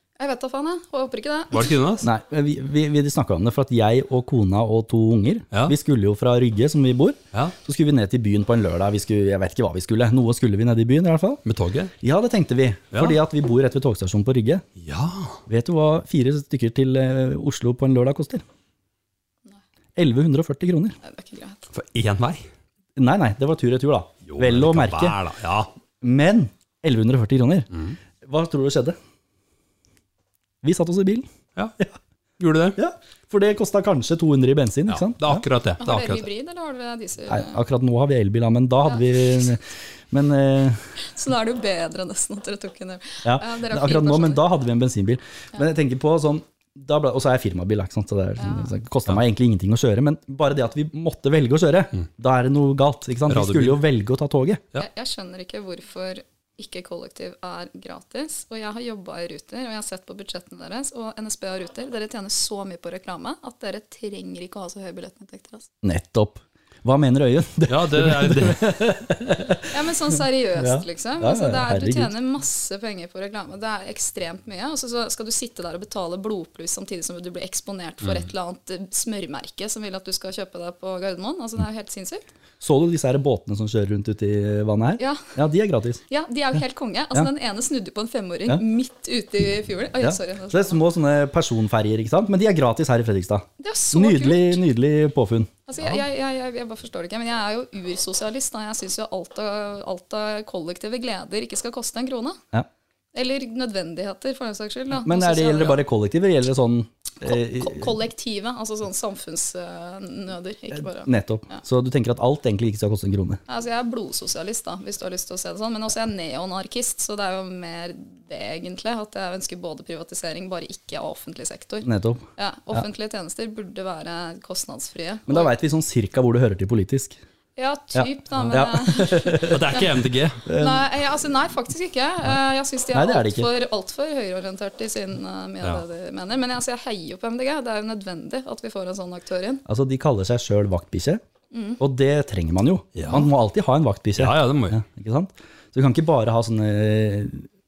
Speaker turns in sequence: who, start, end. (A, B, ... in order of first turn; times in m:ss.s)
0:00.2-0:01.8 A
0:01.5-0:02.1 B
0:02.0-0:11.4 C
0:11.4-0:11.9 B
0:12.0-0:14.6 C
0:12.9-0:13.2 B
0:14.8-0:15.4 B
0:15.5-0:18.4 C
0:20.0-0:21.0 C
0:21.0-0:21.7 A
0:21.7-0:22.4 B
0:23.0-0:25.2 C
0:24.3-0:25.7 B
0:26.0-0:27.7 C
0:28.2-0:29.0 C
0:30.6-0:31.3 C
0:32.4-0:32.8 B
0:32.8-0:35.4 C
0:34.9-0:36.3 B
0:35.8-0:37.6 A
0:37.3-0:40.8 C
0:38.9-0:39.4 A
0:41.0-0:44.4 A
0:43.2-0:54.7 C
0:48.4-0:48.7 A
0:53.3-0:53.8 B
0:54.8-1:05.7 A
1:05.8-1:09.8 C
1:07.7-1:08.9 B
1:09.7-1:22.2 A
1:10.6-1:12.1 C
1:18.0-1:18.3 B
1:22.6-1:26.0 C
1:25.0-1:25.3 A
1:26.1-1:30.8 A
1:30.0-1:36.0 C
1:33.6-1:34.6 A
1:35.7-1:42.4 A
1:43.1-1:45.8 A
1:45.0-1:47.9 C
1:47.2-1:51.6 A
1:50.7-1:53.4 C
1:53.5-2:05.5 A
2:01.8-2:02.8 C
2:05.3-2:07.2 C
2:07.6-2:09.9 A
2:08.0-2:09.8 C
2:09.4-2:10.4 B
2:10.4-2:10.9 C
2:10.6-2:19.6 A
2:12.9-2:13.5 C
2:19.7-2:21.2 C
2:21.5-2:21.8 A
2:21.8-2:27.5 C
2:23.0-2:23.2 B
2:24.2-2:24.8 B